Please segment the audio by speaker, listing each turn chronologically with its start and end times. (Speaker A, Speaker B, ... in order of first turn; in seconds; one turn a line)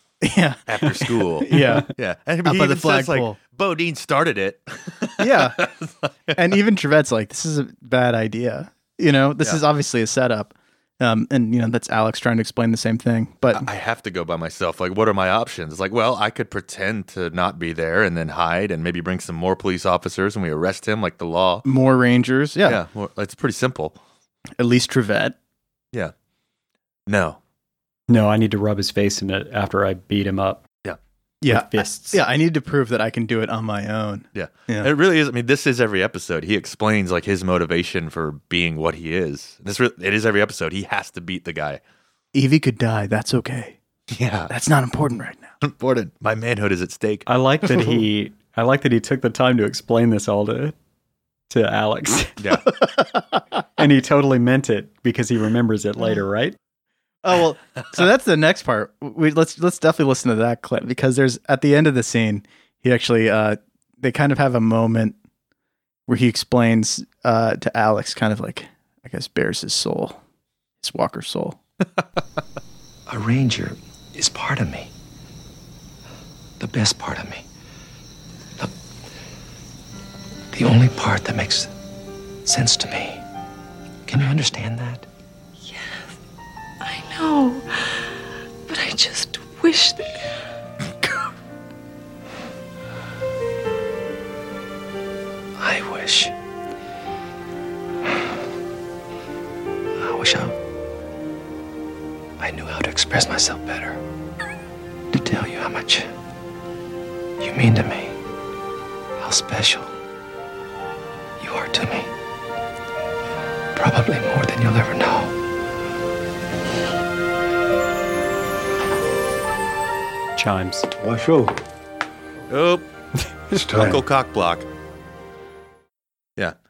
Speaker A: 0.2-1.9
Speaker B: 0.7-6.6
Speaker C: 1.5-1.8
Speaker A: 2.4-3.4
Speaker A: 5.2-5.6
Speaker A: 6.3-13.7
Speaker B: 13.5-21.6
Speaker A: 21.6-22.8
Speaker B: 22.6-24.0
Speaker A: 24.6-25.3
Speaker B: 27.1-27.4
Speaker C: 28.1-30.6
Speaker A: 31.4-34.9
Speaker C: 31.5-32.2
Speaker B: 34.3-41.8
Speaker A: 42.3-43.8
Speaker B: 44.1-44.5
Speaker A: 44.5-45.5
Speaker B: 45.6-47.2
Speaker C: 47.3-50.7
Speaker C: 51.5-52.4
Speaker B: 52.4-52.7
Speaker C: 53.8-56.5
Speaker A: 57.2-65.2
Speaker A: 66.1-70.2
Speaker A: 70.8-71.6
Speaker D: 73.1-74.9
Speaker D: 76.6-77.4
Speaker D: 80.5-81.7
Speaker D: 82.4-83.2
Speaker D: 84.1-85.1
Speaker E: 85.7-86.0
Speaker E: 86.8-87.6
Speaker E: 88.7-90.2
Speaker D: 95.6-96.3
Speaker D: 100.0-100.5
Speaker D: 102.4-104.0
Speaker D: 105.1-106.1
Speaker D: 107.4-108.2
Speaker D: 109.2-109.9
Speaker D: 111.4-112.1
Speaker D: 113.7-115.4
Speaker C: 120.3-120.9
Speaker D: 121.0-121.5
Speaker B: 122.5-122.9
Speaker B: 123.6-124.7